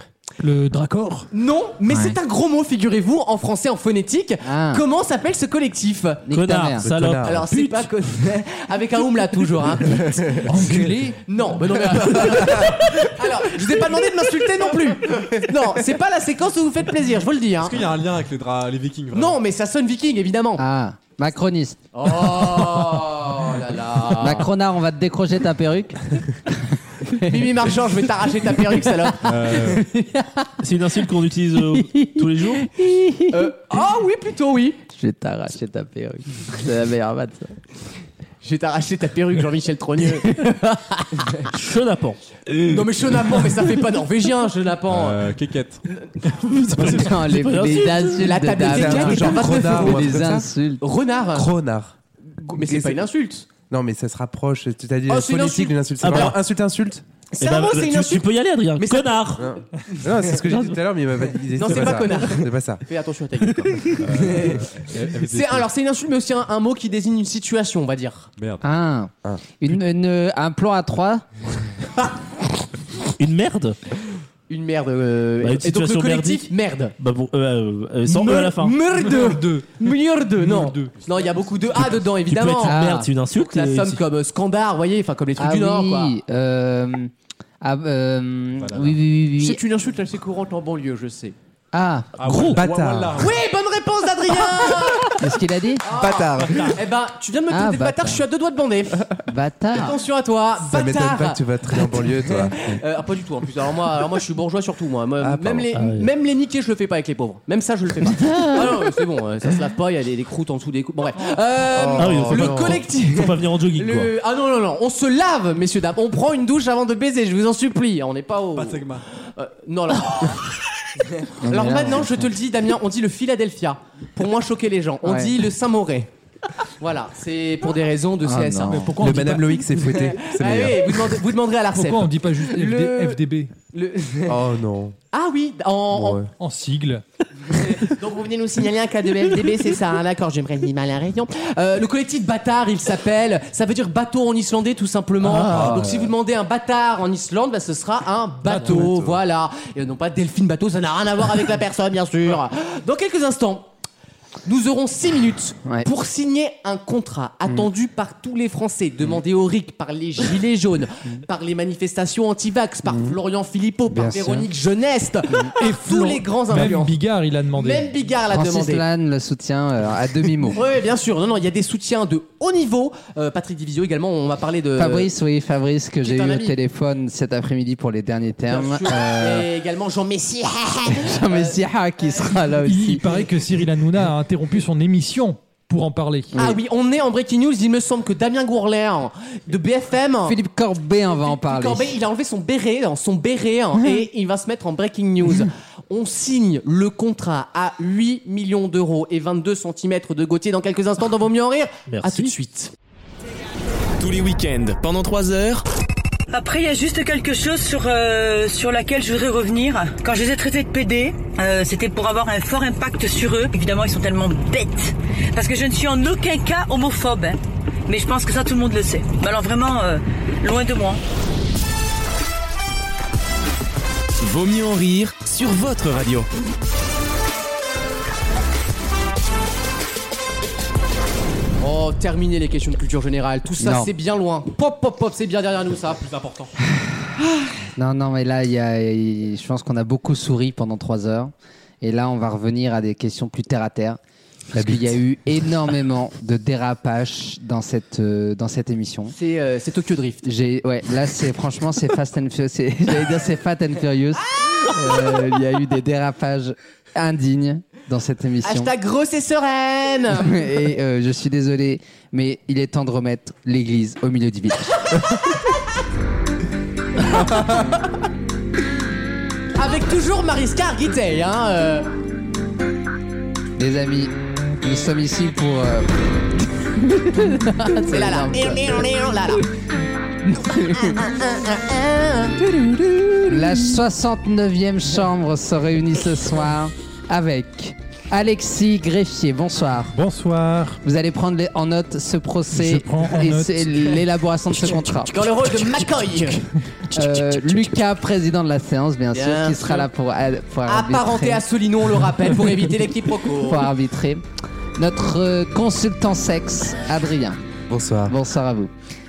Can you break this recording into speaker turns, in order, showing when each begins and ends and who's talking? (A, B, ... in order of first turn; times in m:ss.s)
0:00.4-0:01.3 A
0:01.3-0:06.2 B
0:01.9-0:02.2 C
0:04.4-0:04.8 C
0:06.3-0:06.9 C
0:06.3-0:07.8 D
0:06.8-0:07.4 E
0:07.2-0:17.8 B
0:10.4-0:11.2 A
0:17.6-0:19.4 F
0:19.1-0:20.6 B
0:20.6-0:21.8 C
0:21.9-0:24.5 B
0:24.2-0:27.5 C
0:27.2-0:29.7 B
0:29.2-0:29.9 F
0:29.5-0:30.5 C
0:30.6-0:32.7 D
0:31.7-0:33.5 C
0:33.3-0:34.8 B
0:34.9-0:37.6 C
0:38.4-0:40.4 B
0:40.1-0:41.2 C
0:41.5-0:42.2 D
0:42.6-0:45.3 B
0:44.9-0:45.8 F
0:46.7-0:48.4 D
0:46.7-0:50.8 C
0:48.2-0:50.2 B
0:48.6-0:50.5 E
0:50.8-0:51.5 B
0:51.3-0:52.0 E
0:52.4-0:53.5 B
0:52.5-0:53.0 E
0:53.7-0:57.0 E
0:55.1-0:56.3 B
0:56.0-0:56.4 D
0:57.3-0:58.3 B
0:57.4-0:59.4 D
0:58.8-0:59.5 B
0:59.4-1:02.8 E
1:01.5-1:04.7 B
1:04.0-1:05.7 F
1:05.2-1:08.3 B
1:08.4-1:08.7 F
1:08.6-1:11.2 C
1:09.2-1:09.5 E
1:13.2-1:13.8 D
1:14.5-1:16.9 B
1:15.4-1:18.8 D
1:18.1-1:22.8 B
1:18.9-1:21.0 A
1:21.1-1:21.9 F
1:22.3-1:24.0 D
1:22.6-1:23.1 C
1:23.3-1:26.2 B
1:25.4-1:29.6 C
1:28.6-1:29.0 F
1:29.4-1:31.4 B
1:31.7-1:32.5 C
1:32.2-1:33.4 F
1:32.2-1:32.6 D
1:32.5-1:33.2 E
1:33.2-1:35.2 B
1:35.2-1:35.8 C
1:35.8-1:39.1 B
1:35.9-1:36.8 E
1:37.5-1:38.2 C
1:39.3-1:40.0 C
1:39.7-1:41.4 B
1:40.6-1:42.8 E
1:42.2-2:00.4 B
1:45.2-1:45.7 E
1:45.7-1:46.1 D
1:48.1-1:48.7 C
1:51.7-1:52.8 E
1:52.0-1:54.1 D
1:58.5-1:59.0 F
2:01.1-2:06.1 B
2:01.4-2:02.3 C
2:05.0-2:05.3 C
2:06.8-2:08.9 B
2:08.2-2:09.0 C
2:08.7-2:09.7 A
2:09.0-2:11.2 E
2:09.9-2:13.2 B
2:11.7-2:13.5 A
2:13.7-2:14.4 B
2:14.3-2:15.0 E
2:15.1-2:16.2 B
2:15.9-2:16.3 E
2:16.4-2:17.0 A
2:17.6-2:33.7 B
2:25.3-2:26.0 C
2:25.4-2:25.9 E
2:28.5-2:28.9 A
2:34.4-2:47.0 B
2:43.9-2:44.5 C
2:45.5-2:47.9 A
2:47.6-2:48.8 B
2:48.3-2:50.6 C
2:50.5-2:55.1 B
2:54.8-2:59.5 C
2:56.0-2:56.6 B
2:58.5-3:01.6 B
3:00.9-3:03.1 C
3:02.6-3:06.4 A
3:06.4-3:10.4 B
3:10.2-3:12.0 C
3:11.1-3:22.7 B
3:21.9-3:22.3 D
3:24.0-3:25.7 G
3:26.3-3:41.0 H
3:44.2-3:46.3 G
3:51.6-3:56.0 B
3:53.6-3:53.9 C
3:56.0-3:56.6 F
3:57.8-4:04.0 C
4:04.5-4:09.2 C
4:09.1-4:10.2 B
4:10.2-4:18.7 C
4:18.4-4:20.4 B
4:20.2-4:25.0 C
4:29.6-4:31.9 B
4:33.6-4:35.9 C
4:36.4-4:38.9 C
4:37.9-4:39.5 B
4:40.3-4:41.0 C
4:40.5-4:43.7 B
4:43.3-4:50.0 C
4:49.9-4:50.8 A
4:50.8-4:55.3 C
4:52.5-4:53.7 A
4:54.6-4:57.7 B
4:56.9-5:01.4 C
4:59.1-4:59.9 B
5:00.7-5:03.7 B
5:03.4-5:04.2 C
5:04.8-5:07.4 C
5:07.7-5:08.1 E
5:08.1-5:08.7 C